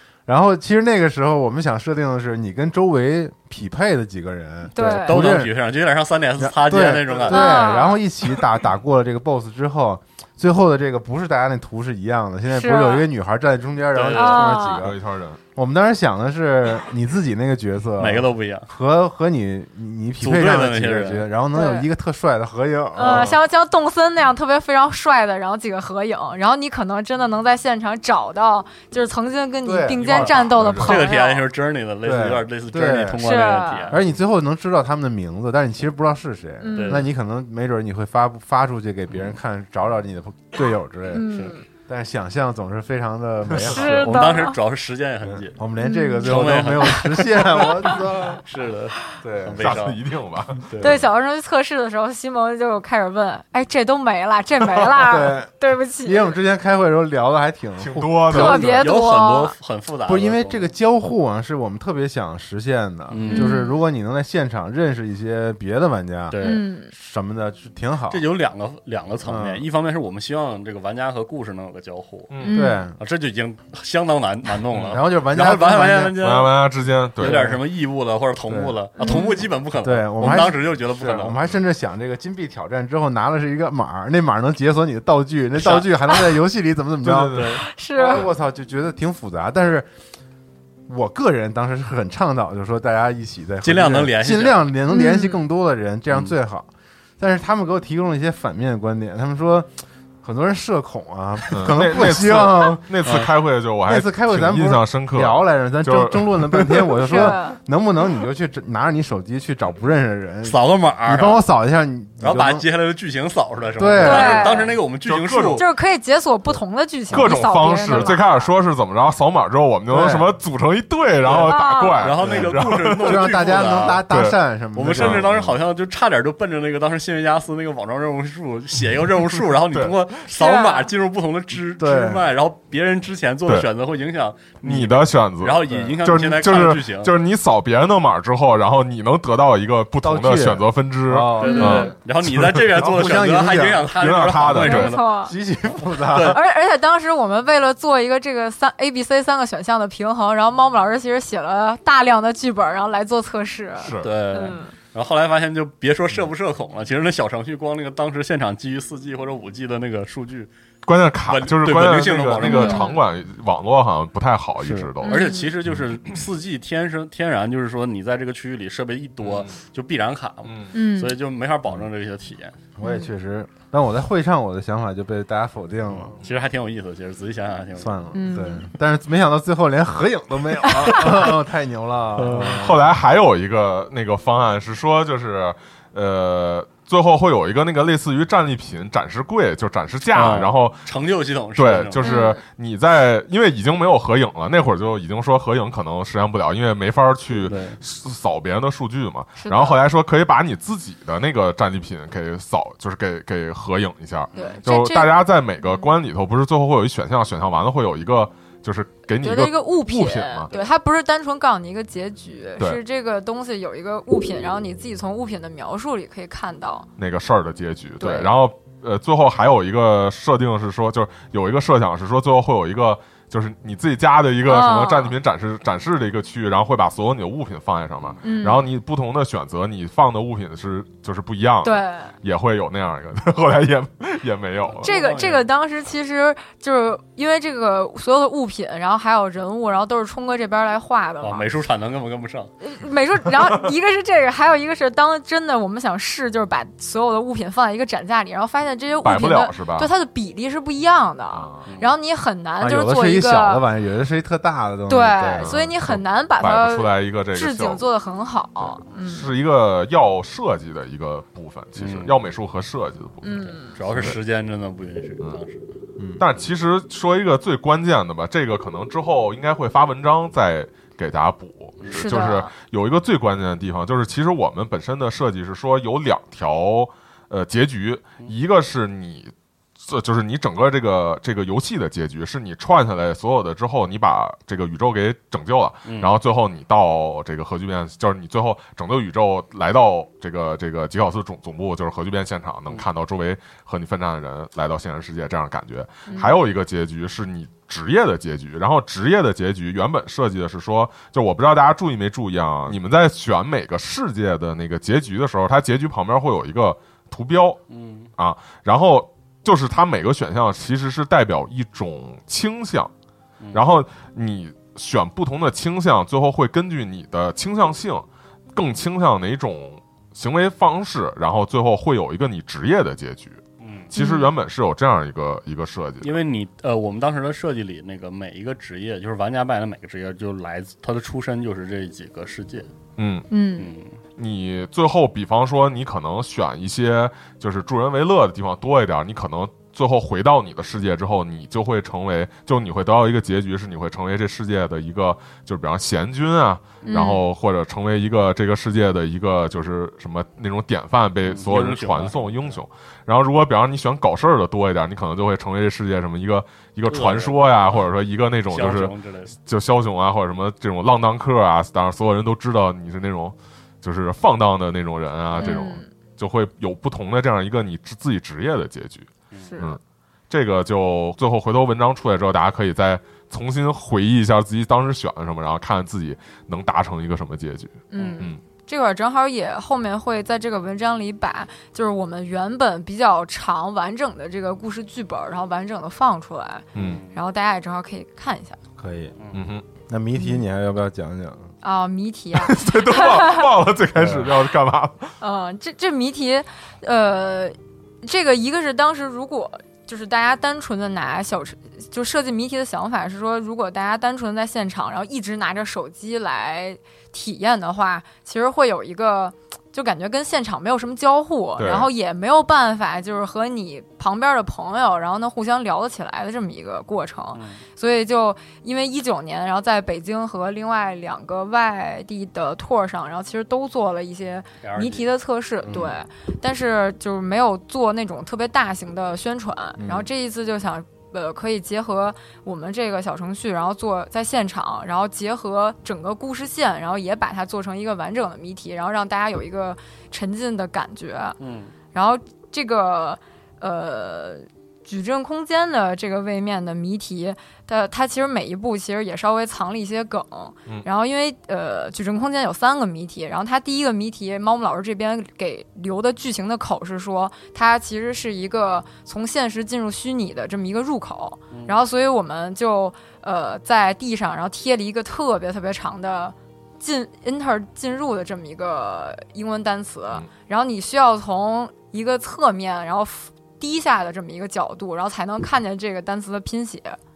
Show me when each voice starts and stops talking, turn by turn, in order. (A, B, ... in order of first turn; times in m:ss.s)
0:00.3-0:05.5 A
0:04.7-0:05.2 B
0:05.0-0:07.8 C
0:06.4-0:15.0 A
0:07.3-0:08.0 B
0:12.5-0:13.0 B
0:13.9-0:14.6 C
0:14.1-0:14.8 B
0:14.7-0:15.4 D
0:15.5-0:23.3 A
0:18.0-0:18.7 C
0:20.2-0:21.3 C
0:21.5-0:21.9 B
0:22.9-0:31.4 B
0:23.0-0:23.3 C
0:29.6-0:30.9 A
0:30.0-0:34.1 C
0:30.5-0:31.0 D
0:32.0-0:33.2 A
0:33.2-0:34.0 B
0:33.9-0:41.3 A
0:36.6-0:37.0 B
0:36.7-0:37.1 C
0:41.1-0:41.6 B
0:41.3-0:41.6 C
0:41.9-0:44.4 A
0:43.6-0:45.6 C
0:43.6-0:44.6 B
0:45.2-0:48.4 A
0:45.8-0:46.3 B
0:46.2-0:50.0 C
0:49.2-0:49.8 A
0:49.6-0:50.7 D
0:50.7-0:51.0 C
0:50.8-0:56.3 B
0:54.9-0:55.5 A
0:56.0-0:58.9 A
0:57.8-0:58.7 D
0:58.3-0:59.5 B
0:58.8-1:00.7 C
1:00.1-1:08.2 A
1:03.1-1:03.6 C
1:03.3-1:03.8 B
1:06.3-1:06.6 C
1:06.4-1:06.9 B
1:08.1-1:12.3 C
1:09.2-1:09.6 A
1:12.3-1:12.6 D
1:12.4-1:12.9 B
1:12.4-1:13.0 A
1:13.0-1:16.6 C
1:14.7-1:15.0 D
1:14.9-1:16.2 A
1:16.2-1:17.4 D
1:17.2-1:21.4 C
1:17.2-1:17.6 A
1:18.5-1:18.8 A
1:19.0-1:19.4 B
1:19.8-1:29.9 A
1:25.6-1:25.9 C
1:27.0-1:27.6 D
1:27.2-1:28.3 C
1:27.7-1:28.3 B
1:30.9-1:39.7 A
1:33.6-1:34.7 C
1:34.9-1:35.4 B
1:40.2-1:43.0 A
1:41.5-1:47.2 D
1:43.0-1:43.3 C
1:43.8-1:52.6 A
1:47.0-1:47.6 B
1:50.4-1:51.4 C
1:52.2-1:55.6 C
1:53.8-1:54.6 A
1:54.0-1:54.7 B
1:55.0-1:55.7 D
1:55.6-1:58.2 B
1:57.1-2:04.4 D
1:57.9-1:58.5 C
1:59.9-2:00.3 A
2:01.2-2:04.0 C
2:01.4-2:02.1 B
2:02.2-2:05.6 A
2:04.7-2:17.1 C
2:04.9-2:05.2 D
2:10.3-2:10.9 B
2:11.8-2:12.3 A
2:14.6-2:22.7 D
2:15.6-2:16.0 A
2:20.0-2:22.0 A
2:21.4-2:25.1 C
2:21.4-2:21.9 B
2:22.7-2:26.4 A
2:23.9-2:24.9 D
2:24.6-2:25.3 B
2:25.9-2:26.4 C
2:26.1-2:34.7 B
2:33.8-2:34.1 D
2:34.0-2:40.5 C
2:40.8-2:45.2 D
2:41.2-2:43.0 C
2:42.4-2:43.0 B
2:44.6-2:52.5 C
2:45.0-2:45.5 B
2:49.2-2:49.6 D
2:50.4-2:50.7 D
2:50.7-2:51.1 B
2:52.8-2:56.1 A
2:52.8-2:53.1 B
2:56.2-2:58.0 C
2:57.8-3:02.9 A
2:58.1-2:58.7 B
3:02.2-3:02.7 C
3:02.4-3:10.8 D
3:10.1-3:12.1 C
3:11.6-3:30.5 D
3:12.0-3:12.4 B
3:17.4-3:17.8 C
3:19.4-3:19.8 B
3:24.3-3:24.6 C
3:24.3-3:25.9 B
3:29.2-3:36.9 B
3:37.0-3:54.9 D
3:38.0-3:38.3 B
3:44.4-3:45.1 B
3:48.2-3:48.7 B
3:51.6-3:52.1 B
3:54.6-3:55.5 C
3:54.8-4:01.5 B
4:01.2-4:02.5 C
4:02.6-4:13.6 B
4:09.0-4:09.9 D
4:11.3-4:11.7 D
4:11.6-4:11.9 C
4:12.6-4:15.5 A
4:14.9-4:19.3 B
4:15.4-4:17.8 D
4:18.6-4:24.2 D
4:21.8-4:22.2 C
4:23.2-4:23.8 B
4:23.7-4:25.7 C
4:26.2-5:07.6 D
4:31.9-4:32.5 B
4:45.8-4:46.1 C
4:56.1-4:56.4 B
5:07.7-5:08.1 C
5:08.2-5:12.9 D
5:13.5-5:26.2 D
5:23.6-5:23.9 C
5:23.9-5:24.3 B
5:26.0-5:32.7 C
5:33.0-5:33.3 D
5:33.3-5:33.7 B
5:33.6-5:34.0 C
5:34.2-6:18.4 D
5:46.9-5:47.2 B
5:51.2-5:52.6 C
5:56.9-5:57.9 C
5:58.5-5:59.3 C
6:05.3-6:05.6 C
6:05.4-6:05.9 B
6:09.3-6:09.6 C
6:09.5-6:09.8 B
6:17.9-6:28.6 B
6:18.0-6:18.3 C
6:26.7-6:27.0 D
6:26.7-6:27.2 C
6:28.8-6:29.1 A
6:29.2-6:29.4 C
6:29.3-6:29.6 D
6:29.9-6:31.5 A
6:30.2-6:30.4 B
6:31.6-6:33.4 B
6:32.3-6:35.1 D
6:35.2-7:21.4 B
6:51.6-6:51.9 D
6:57.3-6:57.6 C
7:04.6-7:05.1 C
7:05.7-7:05.9 A
7:09.8-7:10.1 A
7:21.4-7:21.7 C
7:21.9-7:57.0 B
7:41.5-7:41.8 C